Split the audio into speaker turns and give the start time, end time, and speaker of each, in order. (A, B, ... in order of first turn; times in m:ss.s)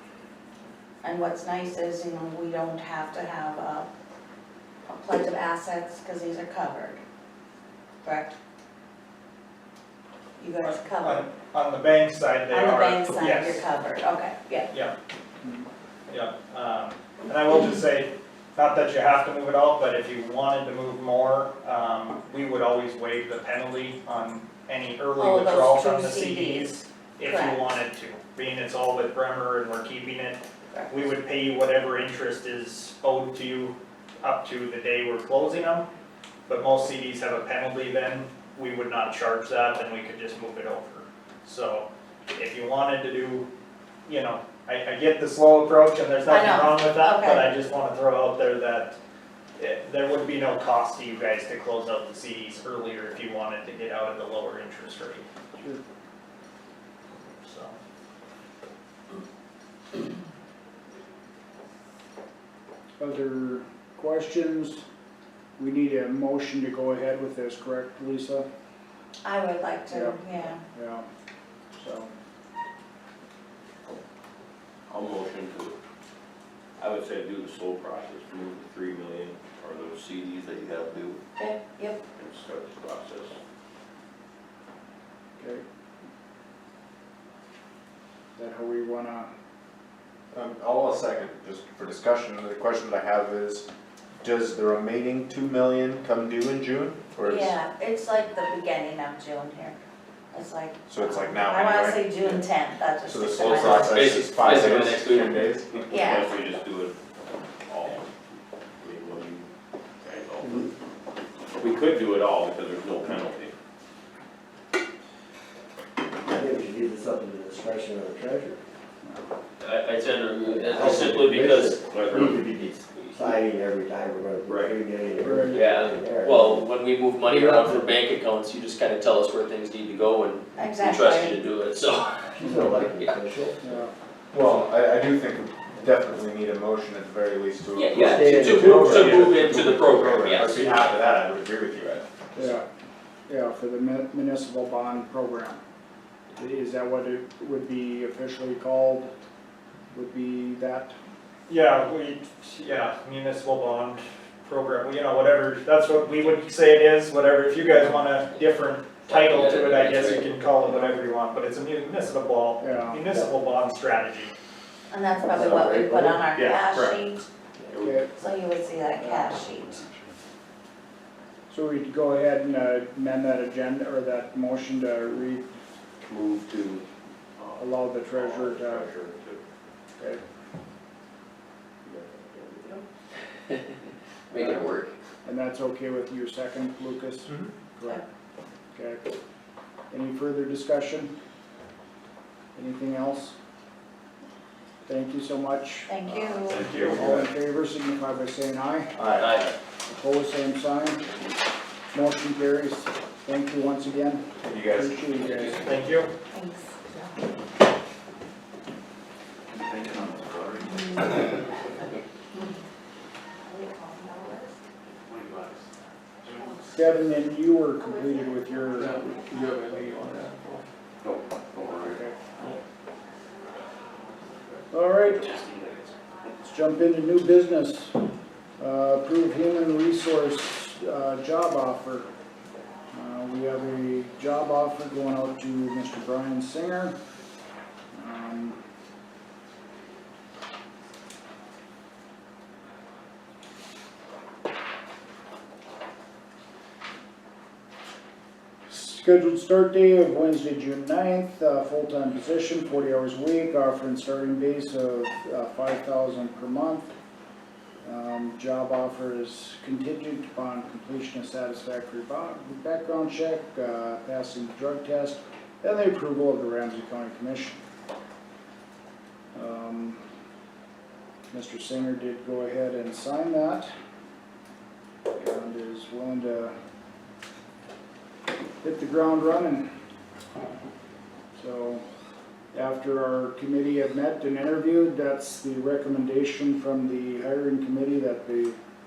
0:01.0-0:03.9 A
0:04.9-0:07.0 A
0:08.0-0:08.3 A
0:10.4-0:11.2 A
0:11.0-0:13.6 B
0:12.5-0:14.7 A
0:16.1-0:35.9 B
0:25.2-0:27.7 A
0:36.5-0:43.5 B
0:44.1-0:49.0 B
0:46.3-0:47.5 A
0:49.6-0:55.2 B
0:57.4-0:57.8 B
1:03.0-1:04.8 C
1:05.6-1:08.5 C
1:09.2-1:10.6 A
1:09.9-1:11.1 C
1:11.7-1:12.1 C
1:14.9-1:15.8 D
1:16.8-1:21.2 D
1:21.4-1:22.0 A
1:22.2-1:23.4 D
1:25.4-1:25.6 C
1:28.4-1:29.3 C
1:30.3-1:33.7 E
1:34.2-1:37.6 E
1:37.2-1:39.8 A
1:40.3-1:44.2 A
1:40.9-1:42.4 E
1:43.0-1:45.7 E
1:43.9-1:45.3 F
1:45.7-1:47.0 D
1:45.9-1:46.3 A
1:47.7-1:48.1 D
1:48.8-1:49.5 D
1:50.0-1:50.7 D
1:50.4-1:50.7 G
1:51.6-1:53.5 D
1:56.2-1:58.6 G
1:59.6-2:01.7 F
2:00.4-2:06.7 G
2:00.9-2:02.5 D
2:04.5-2:04.8 D
2:05.2-2:05.7 C
2:05.5-2:06.3 D
2:06.2-2:12.1 F
2:07.2-2:07.9 G
2:10.6-2:11.4 A
2:12.3-2:13.6 G
2:13.6-2:13.9 C
2:14.3-2:22.1 E
2:17.8-2:18.1 F
2:18.0-2:19.3 G
2:18.1-2:19.2 D
2:19.1-2:21.0 F
2:20.1-2:20.8 D
2:22.4-2:22.7 C
2:23.3-2:25.6 C
2:26.4-2:29.1 C
2:29.9-2:31.0 C
2:31.5-2:44.3 B
2:37.7-2:38.0 C
2:39.1-2:40.3 F
2:42.6-2:43.1 C
2:44.9-2:47.3 A
2:45.3-2:46.3 G
2:46.3-2:47.0 D
2:47.8-2:48.1 C
2:48.2-2:49.9 A
2:49.0-2:49.4 C
2:51.5-2:55.5 C
2:56.0-2:56.8 E
2:57.4-2:59.4 D
2:57.6-2:58.9 C
3:01.9-3:02.8 G
3:04.3-3:04.9 F
3:04.4-3:04.6 G
3:05.2-3:08.0 C
3:08.8-3:09.0 C
3:09.9-3:11.1 C
3:12.6-3:13.4 C
3:14.9-3:19.0 C
3:15.9-3:16.7 A
3:16.5-3:17.2 E
3:16.5-3:17.0 B
3:19.0-3:19.5 E
3:19.2-3:19.5 F
3:19.9-3:21.0 C
3:21.9-3:25.7 C
3:24.4-3:25.4 E
3:25.6-3:26.1 B
3:26.3-3:27.2 A
3:29.5-3:30.6 E
3:30.7-3:31.7 A
3:33.4-3:34.6 A
3:36.7-3:39.0 C
3:37.8-3:39.3 A
3:38.8-3:40.6 D
3:41.1-3:41.8 E
3:41.5-3:42.2 C
3:44.7-3:45.4 C
3:46.3-3:48.0 C
3:48.6-3:52.1 C
3:52.9-3:57.0 C
3:57.9-3:58.6 C
4:08.7-4:16.9 C
4:17.8-4:27.6 C
4:29.3-4:30.0 C
4:31.3-4:33.7 C
4:35.1-4:36.5 C
4:38.6-4:39.7 C
4:41.4-4:41.8 C
4:42.5-4:48.6 C